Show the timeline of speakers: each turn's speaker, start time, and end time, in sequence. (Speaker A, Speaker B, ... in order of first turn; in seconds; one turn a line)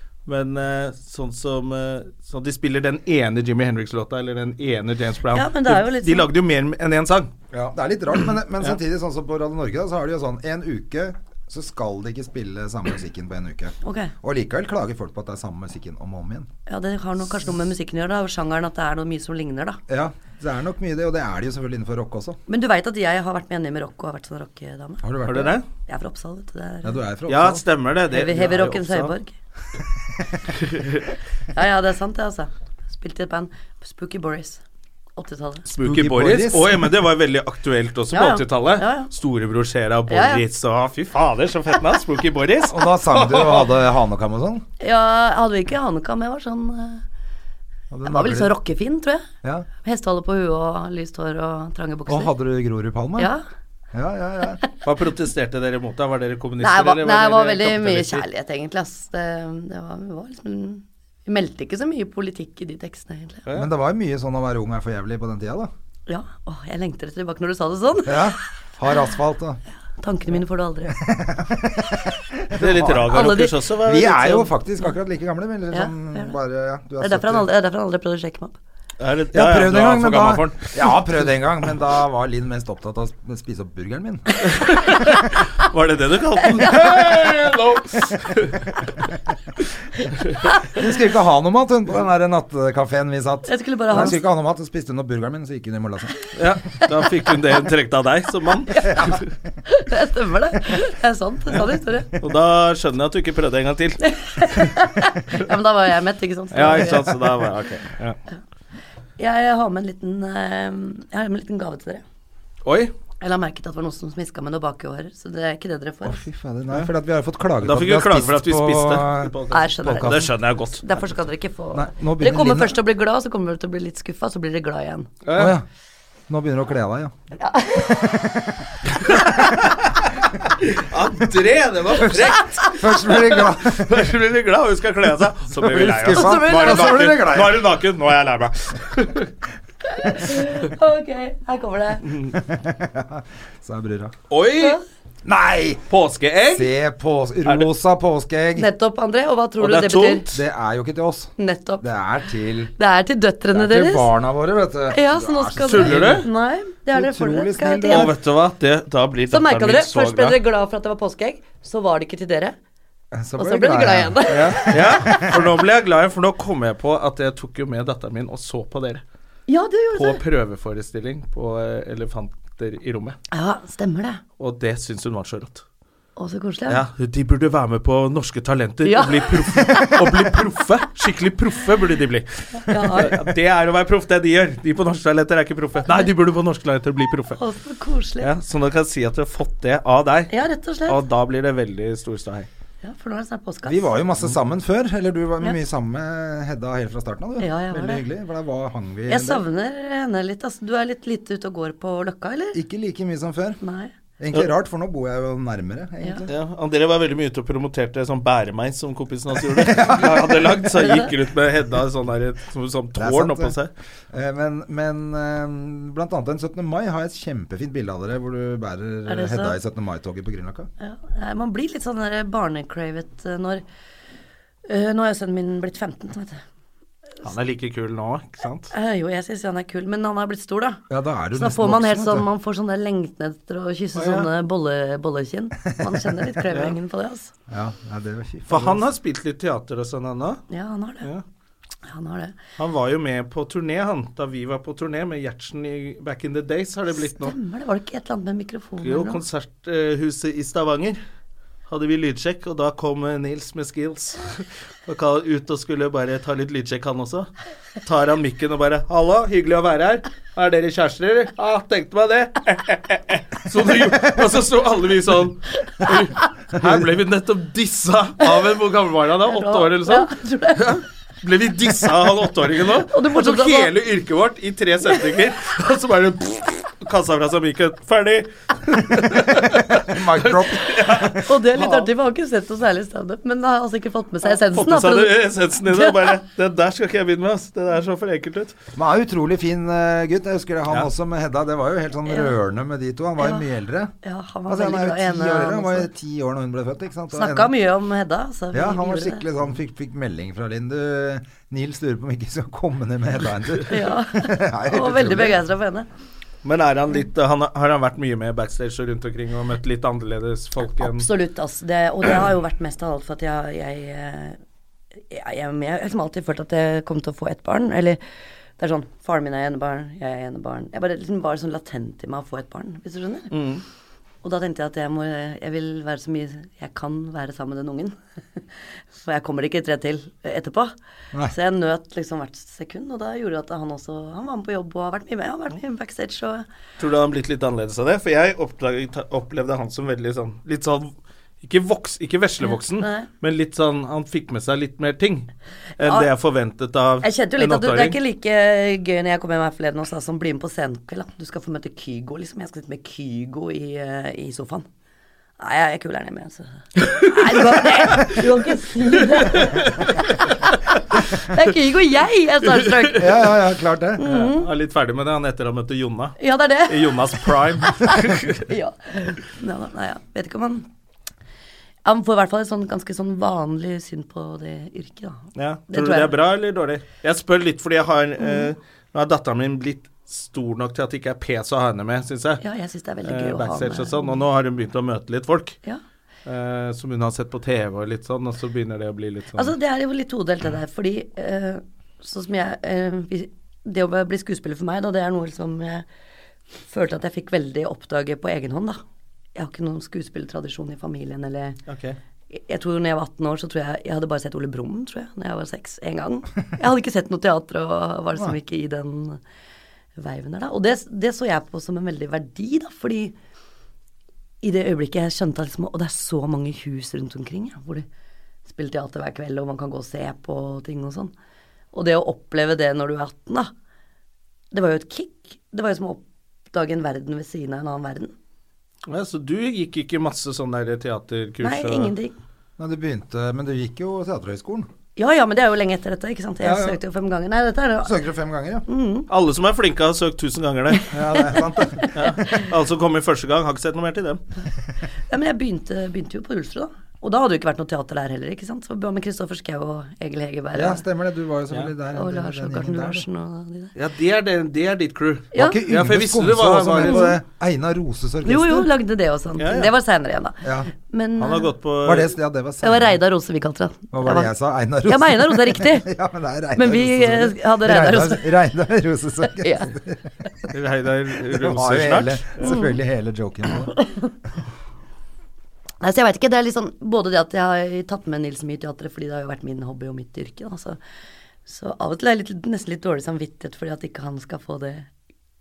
Speaker A: 0.3-7.3
Speaker B: 5.3-6.3
Speaker C: 7.5-16.5
Speaker B: 13.8-14.1
Speaker B: 16.7-19.8
Speaker C: 19.9-22.4
Speaker B: 22.5-25.1
Speaker C: 25.0-25.6
Speaker A: 25.3-25.7
Speaker B: 25.8-27.0
Speaker C: 26.8-27.6
Speaker A: 27.3-29.1
Speaker B: 28.1-29.3
Speaker A: 30.6-31.1
Speaker B: 31.5-34.6
Speaker B: 35.2-35.6
Speaker A: 35.7-43.7
Speaker C: 35.8-36.9
Speaker B: 38.1-39.1
Speaker B: 40.1-40.4
Speaker C: 42.7-44.6
Speaker B: 44.8-47.0
Speaker C: 47.9-48.5
Speaker B: 48.1-49.3
Speaker B: 49.8-52.3
Speaker C: 52.1-53.3
Speaker B: 53.2-53.5
Speaker C: 53.9-54.6
Speaker A: 54.8-58.2
Speaker B: 56.6-63.5
Speaker C: 63.5-65.7
Speaker B: 66.1-68.5
Speaker C: 68.1-69.6
Speaker B: 70.0-71.0
Speaker C: 70.9-73.3
Speaker A: 72.5-74.4
Speaker B: 73.1-73.6
Speaker C: 73.8-77.5
Speaker B: 74.1-74.9
Speaker B: 75.7-76.3
Speaker B: 77.0-78.6
Speaker A: 79.0-81.2
Speaker C: 79.3-84.4
Speaker A: 84.4-88.9
Speaker B: 86.5-87.2
Speaker C: 90.7-96.2
Speaker B: 93.5-94.2
Speaker A: 96.3-99.2
Speaker B: 98.7-102.1
Speaker A: 102.2-104.7
Speaker B: 104.0-107.2
Speaker A: 106.5-108.2
Speaker C: 106.9-107.1
Speaker B: 109.2-112.0
Speaker A: 112.7-112.9
Speaker B: 113.2-116.2
Speaker C: 116.0-119.3
Speaker A: 117.6-120.8
Speaker B: 119.5-125.1
Speaker C: 119.9-120.3
Speaker C: 121.7-122.8
Speaker A: 125.2-125.6
Speaker C: 125.3-125.7
Speaker C: 126.3-127.1
Speaker B: 127.4-128.3
Speaker C: 127.9-128.6
Speaker A: 129.2-139.3
Speaker C: 132.1-134.1
Speaker C: 135.6-137.7
Speaker B: 136.0-137.1
Speaker B: 139.8-142.1
Speaker C: 142.3-144.2
Speaker A: 144.3-144.8
Speaker C: 145.2-145.8
Speaker A: 145.9-146.7
Speaker C: 146.5-148.7
Speaker B: 148.6-150.3
Speaker A: 149.6-150.4
Speaker C: 150.3-152.7
Speaker B: 151.4-151.8
Speaker B: 152.8-154.1
Speaker C: 153.5-156.3
Speaker B: 154.9-158.1
Speaker A: 155.7-156.3
Speaker C: 156.9-158.2
Speaker A: 157.9-160.4
Speaker B: 159.3-162.6
Speaker C: 163.1-165.4
Speaker B: 163.4-165.4
Speaker A: 164.3-169.0
Speaker B: 169.5-170.2
Speaker A: 169.9-173.2
Speaker B: 173.3-174.2
Speaker A: 174.4-175.6
Speaker B: 176.2-176.8
Speaker A: 176.7-187.4
Speaker B: 178.8-180.3
Speaker B: 182.5-183.2
Speaker B: 187.4-188.3
Speaker A: 188.2-190.3
Speaker B: 190.3-191.0
Speaker A: 190.9-192.5
Speaker B: 192.8-193.9
Speaker C: 193.7-199.4
Speaker B: 197.4-198.1
Speaker B: 199.1-202.6
Speaker C: 202.5-203.6
Speaker B: 203.6-203.9
Speaker C: 204.2-206.3
Speaker A: 206.3-213.7
Speaker C: 209.5-210.7
Speaker C: 213.0-213.6
Speaker C: 214.1-220.7
Speaker B: 219.1-219.6
Speaker B: 220.8-223.6
Speaker B: 224.7-226.4
Speaker A: 227.2-228.7
Speaker B: 228.7-230.8
Speaker C: 230.9-232.3
Speaker B: 231.3-237.3
Speaker A: 233.9-234.3
Speaker C: 237.5-238.9
Speaker A: 238.5-240.4
Speaker B: 240.5-241.1
Speaker B: 241.9-242.4
Speaker A: 242.6-247.3
Speaker B: 246.9-249.2
Speaker A: 248.8-251.0
Speaker A: 251.7-257.3
Speaker A: 257.8-281.9
Speaker B: 269.2-270.8
Speaker B: 272.9-273.7
Speaker C: 279.1-281.3
Speaker B: 281.2-286.1
Speaker A: 284.2-288.6
Speaker C: 288.8-293.9
Speaker B: 292.1-292.3
Speaker B: 293.2-293.4
Speaker B: 294.0-295.9
Speaker C: 294.5-297.5
Speaker B: 297.1-299.3
Speaker C: 298.5-305.4
Speaker B: 303.7-305.9
Speaker A: 306.4-311.1
Speaker B: 310.8-314.4
Speaker B: 315.1-318.0
Speaker B: 318.6-323.3
Speaker A: 323.3-323.6
Speaker B: 324.2-328.4
Speaker B: 328.9-330.7
Speaker B: 331.2-336.4
Speaker A: 336.8-348.0
Speaker B: 342.4-343.1
Speaker B: 345.8-346.1
Speaker B: 347.0-354.7
Speaker B: 355.4-363.3
Speaker A: 356.8-358.2
Speaker A: 359.0-360.0
Speaker C: 363.0-364.1
Speaker B: 364.0-364.5
Speaker A: 364.0-368.5
Speaker B: 366.2-370.7
Speaker B: 371.9-376.1
Speaker A: 375.4-382.4
Speaker B: 378.2-378.5
Speaker B: 382.4-384.2
Speaker A: 383.0-385.6
Speaker A: 386.2-389.5
Speaker B: 389.4-395.9
Speaker B: 396.7-398.8
Speaker B: 399.4-401.6
Speaker A: 401.7-402.0
Speaker B: 402.3-409.2
Speaker B: 410.0-413.1
Speaker B: 414.4-417.9
Speaker B: 418.5-421.1
Speaker B: 421.7-423.5
Speaker B: 424.5-428.1
Speaker A: 428.9-431.9
Speaker B: 431.4-432.2
Speaker C: 432.6-434.7
Speaker B: 435.0-438.0
Speaker C: 436.4-436.8
Speaker C: 437.8-438.6
Speaker B: 438.7-439.1
Speaker A: 439.1-440.9
Speaker B: 440.8-442.4
Speaker C: 440.9-442.2
Speaker A: 441.9-444.2
Speaker B: 445.1-450.8
Speaker C: 450.6-453.1
Speaker B: 451.9-453.7
Speaker A: 453.8-457.2
Speaker B: 455.3-455.6
Speaker C: 455.4-458.7
Speaker B: 456.8-457.1
Speaker B: 458.2-461.5
Speaker A: 459.4-459.7
Speaker C: 460.4-460.7
Speaker A: 461.2-462.1
Speaker C: 461.8-463.0
Speaker B: 462.6-464.3
Speaker C: 463.9-470.1
Speaker B: 464.9-465.9
Speaker B: 466.6-468.4
Speaker B: 469.3-469.7
Speaker A: 470.5-472.5
Speaker C: 471.3-473.7
Speaker B: 472.4-472.8
Speaker B: 473.8-474.1
Speaker B: 475.8-480.8
Speaker B: 481.5-484.9